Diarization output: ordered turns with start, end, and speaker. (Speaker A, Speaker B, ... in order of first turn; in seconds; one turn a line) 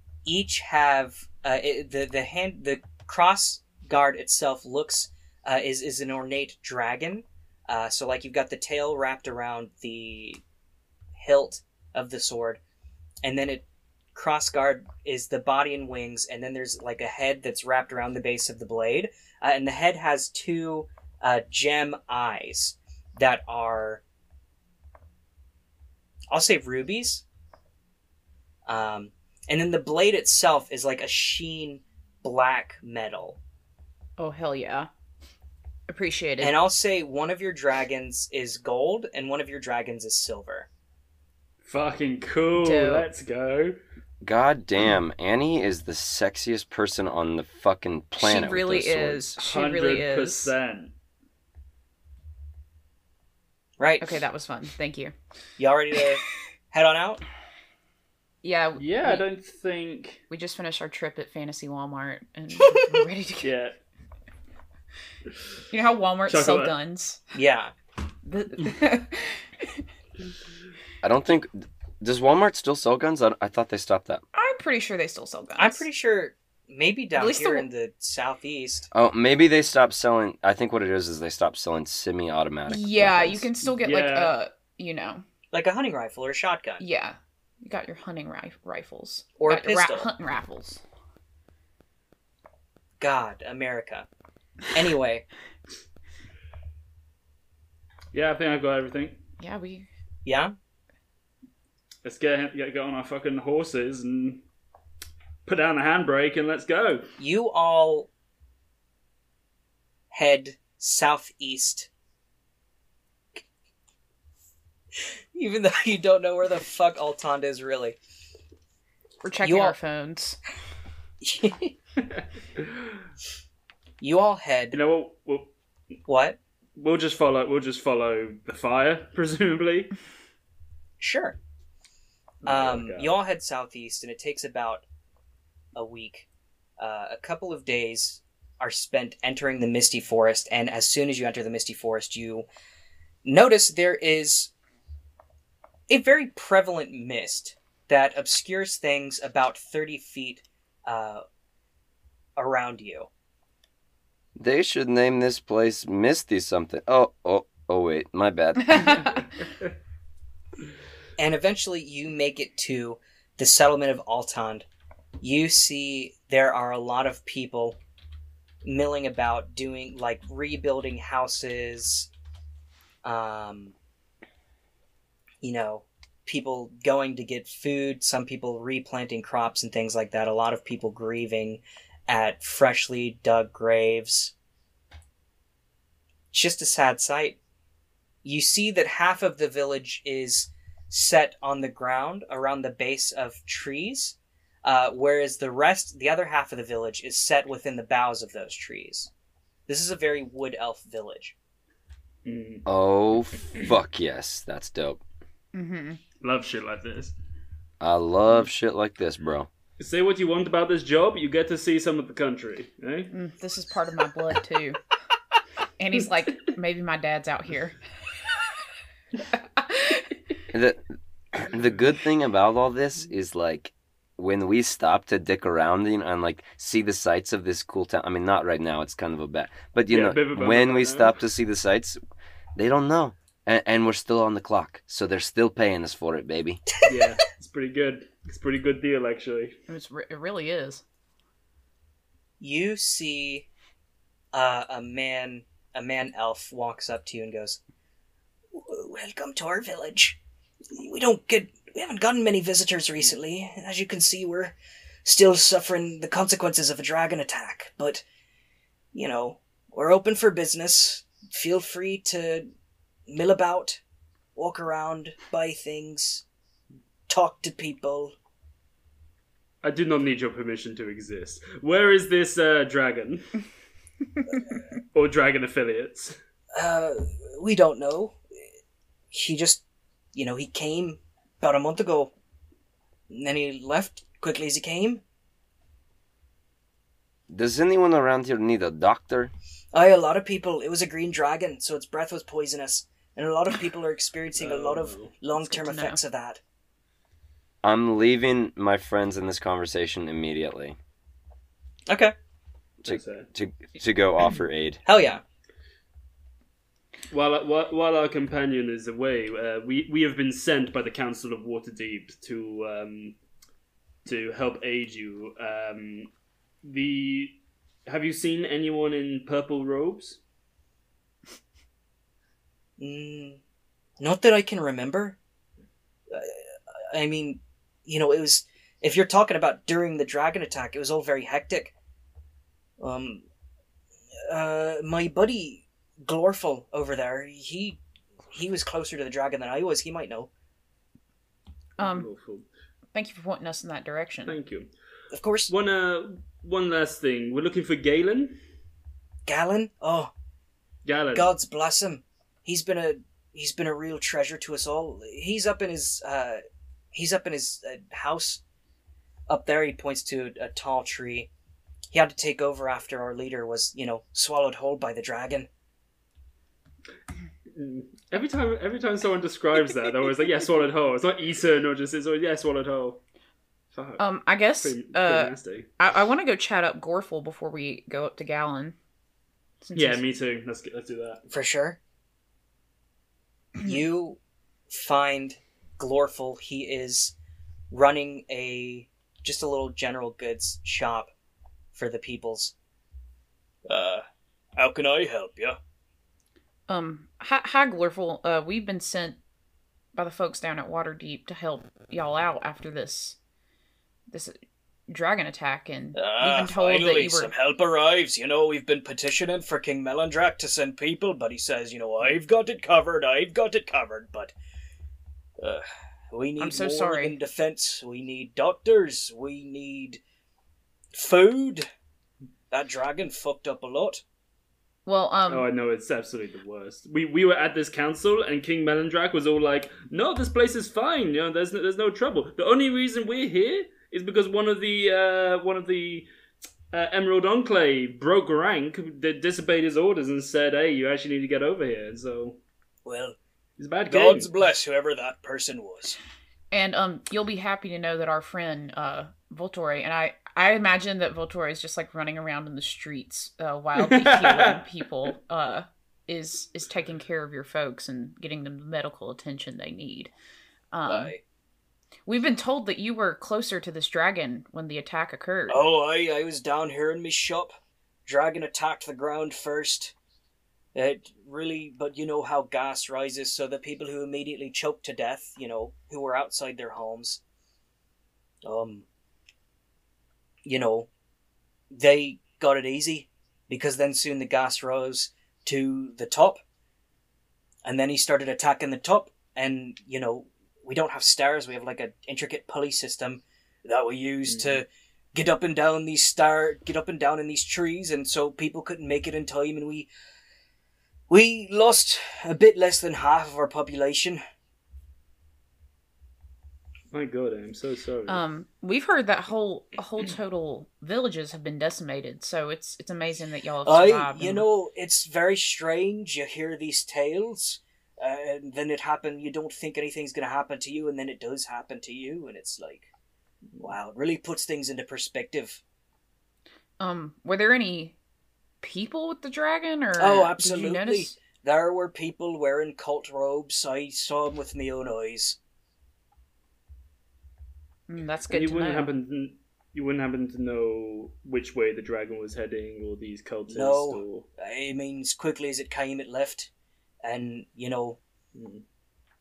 Speaker A: 0.2-10.4
Speaker A: 11.2-12.6
Speaker A: 13.2-24.0
Speaker A: 26.3-27.2
Speaker A: 28.6-33.4
Speaker B: 34.2-34.9
Speaker B: 35.9-36.6
Speaker A: 36.4-40.7
Speaker C: 41.6-43.8
Speaker B: 42.6-43.1
Speaker D: 44.2-49.4
Speaker B: 48.2-50.5
Speaker C: 49.4-50.9
Speaker A: 53.8-54.2
Speaker B: 54.0-55.1
Speaker A: 55.6-57.2
Speaker B: 58.4-59.2
Speaker C: 58.8-60.2
Speaker B: 60.3-63.5
Speaker C: 63.4-63.8
Speaker B: 65.7-67.2
Speaker C: 66.3-66.7
Speaker A: 67.3-67.7
Speaker B: 68.2-69.5
Speaker D: 71.0-74.2
Speaker B: 74.3-75.8
Speaker A: 75.6-78.9
Speaker B: 77.2-77.7
Speaker D: 78.9-83.5
Speaker B: 82.7-85.2
Speaker C: 83.7-84.3
Speaker A: 85.5-86.8
Speaker B: 86.8-90.8
Speaker A: 89.4-90.1
Speaker A: 93.0-94.1
Speaker A: 94.7-95.2
Speaker C: 98.1-99.2
Speaker B: 99.4-99.9
Speaker A: 100.2-100.5
Speaker C: 102.0-104.4
Speaker C: 105.5-107.0
Speaker A: 107.2-108.1
Speaker A: 110.1-111.9
Speaker A: 115.3-118.0
Speaker B: 119.2-120.4
Speaker A: 119.4-119.8
Speaker A: 121.2-121.7
Speaker C: 122.1-122.7
Speaker A: 124.0-124.8
Speaker C: 124.7-125.5
Speaker A: 126.1-126.4
Speaker C: 126.8-129.9
Speaker A: 131.0-131.4
Speaker A: 132.4-134.8
Speaker C: 132.4-133.2
Speaker A: 135.7-136.3
Speaker A: 136.8-142.4
Speaker A: 143.2-144.5
Speaker A: 145.9-151.2
Speaker A: 152.4-153.1
Speaker D: 154.4-159.0
Speaker B: 158.7-159.2
Speaker A: 161.2-164.7
Speaker A: 165.2-167.8
Speaker A: 168.6-172.1
Speaker A: 173.0-173.7
Speaker A: 175.4-184.3
Speaker A: 186.3-187.4
Speaker A: 188.2-199.1
Speaker A: 199.7-201.3
Speaker C: 202.2-202.6
Speaker D: 202.7-205.0
Speaker B: 205.5-206.0
Speaker C: 206.2-207.1
Speaker D: 207.8-209.5
Speaker C: 209.8-213.1
Speaker B: 213.1-214.8
Speaker B: 215.8-217.8
Speaker B: 219.6-220.1
Speaker D: 220.5-232.0
Speaker C: 229.9-231.2
Speaker D: 232.6-236.6
Speaker C: 236.8-239.6
Speaker A: 236.8-237.1
Speaker B: 239.7-240.8
Speaker A: 242.4-243.5
Speaker A: 244.3-247.6
Speaker A: 248.5-250.2
Speaker A: 250.7-258.0
Speaker A: 258.9-262.5
Speaker A: 263.1-263.8
Speaker A: 264.3-266.2
Speaker A: 267.1-268.1
Speaker C: 269.6-273.3
Speaker C: 274.9-276.1
Speaker A: 276.5-278.2
Speaker A: 279.1-279.6
Speaker A: 280.1-282.1
Speaker A: 283.1-285.0
Speaker D: 287.3-289.3
Speaker A: 289.7-296.4
Speaker C: 294.4-295.1
Speaker B: 295.4-296.0
Speaker D: 297.6-300.8
Speaker A: 301.9-302.1
Speaker D: 302.8-304.8
Speaker C: 302.8-303.3
Speaker A: 304.9-305.2
Speaker C: 307.1-313.2
Speaker C: 314.0-316.1
Speaker C: 316.6-320.2
Speaker A: 322.8-323.4
Speaker A: 324.0-325.2
Speaker A: 326.1-326.4
Speaker A: 326.9-331.7
Speaker A: 332.8-333.2
Speaker A: 334.3-337.8
Speaker A: 338.3-340.3
Speaker B: 341.8-342.1
Speaker C: 341.8-342.4
Speaker B: 342.9-344.4
Speaker C: 344.3-344.7
Speaker A: 345.1-345.5
Speaker C: 345.5-348.4
Speaker A: 349.2-350.1
Speaker C: 350.8-351.3
Speaker A: 351.1-356.4
Speaker A: 356.9-358.4
Speaker A: 359.3-361.3
Speaker A: 361.9-365.5
Speaker C: 367.5-373.0
Speaker C: 373.7-374.0
Speaker B: 374.0-378.8
Speaker C: 374.6-375.7
Speaker B: 379.6-380.0
Speaker C: 379.7-381.2
Speaker A: 381.3-381.8
Speaker A: 383.6-384.2
Speaker A: 384.7-387.1
Speaker A: 387.7-391.1
Speaker A: 391.7-392.5
Speaker A: 393.7-394.0
Speaker A: 394.6-395.6
Speaker B: 396.7-399.2
Speaker B: 399.9-403.2
Speaker B: 404.1-404.4
Speaker B: 404.9-407.3
Speaker A: 405.9-414.3
Speaker A: 415.4-420.0
Speaker B: 416.4-417.1
Speaker A: 420.9-421.7
Speaker A: 422.5-424.0
Speaker B: 424.9-425.5
Speaker C: 425.3-436.1
Speaker C: 436.7-442.4
Speaker A: 442.8-443.2
Speaker C: 443.6-444.3
Speaker A: 443.9-446.0
Speaker B: 446.5-460.1
Speaker C: 453.8-454.6
Speaker B: 460.7-461.1
Speaker A: 460.9-461.2
Speaker B: 462.1-465.6
Speaker A: 465.5-467.5
Speaker A: 468.1-469.9
Speaker A: 470.7-477.2
Speaker A: 478.4-478.8
Speaker A: 480.4-480.9
Speaker A: 481.7-486.4
Speaker A: 487.6-499.9
Speaker C: 494.3-494.6
Speaker A: 501.1-504.2
Speaker C: 506.9-508.2
Speaker B: 508.1-514.4
Speaker A: 513.6-522.9
Speaker A: 523.6-525.6
Speaker B: 526.8-528.0
Speaker B: 528.6-531.2
Speaker A: 530.0-535.4
Speaker B: 537.9-538.9
Speaker C: 538.3-544.2
Speaker A: 543.5-546.5
Speaker A: 547.0-548.0
Speaker C: 548.3-548.6